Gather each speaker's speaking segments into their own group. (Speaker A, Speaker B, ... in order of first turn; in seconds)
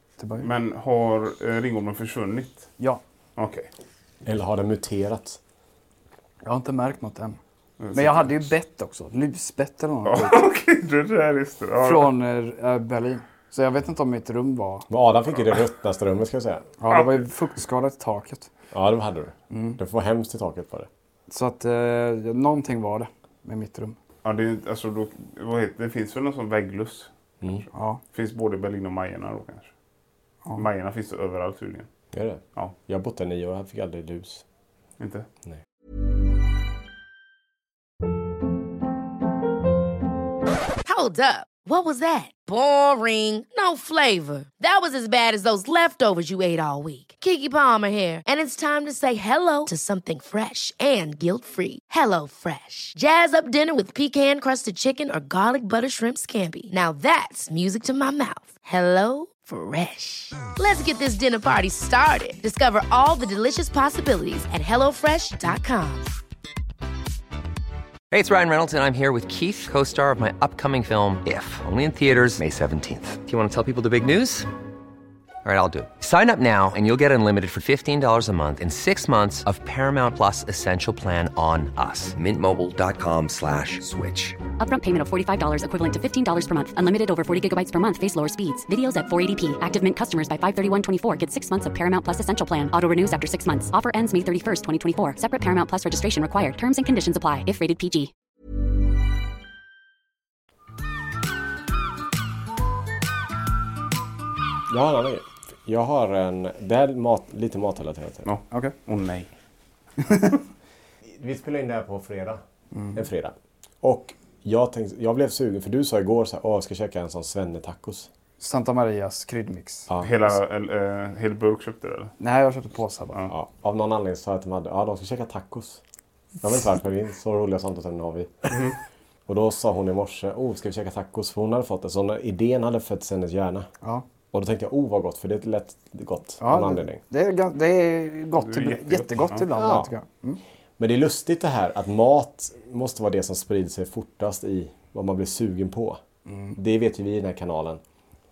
Speaker A: 0.2-0.5, 6.4-7.4, 7.9-10.4, 11.8-14.9, 16.8-18.5, 19.5-19.8, 21.3-24.0, 27.7-28.0, 110.0-110.4, 112.7-113.0, 118.4-119.9, 122.2-123.2, 136.4-140.4, 146.3-146.6
Speaker B: 0.4-2.7, 3.4-3.7, 7.8-8.3, 10.1-12.1, 16.9-17.2, 24.2-29.7, 30.6-31.9, 35.0-35.3, 108.2-109.3, 120.0-122.2, 138.4-139.5
Speaker C: 4.2-5.4, 14.9-16.7, 18.7-20.9, 32.1-34.5, 104.7-108.3, 111.0-112.4, 112.9-118.1, 119.9-120.2, 123.3-125.8, 126.4-128.6, 129.3-133.7, 134.3-137.0, 139.5-139.9, 140.8-146.0, 146.6-147.8
Speaker D: 40.9-66.1
Speaker E: 68.1-74.5, 75.4-84.4
Speaker F: 84.6-98.1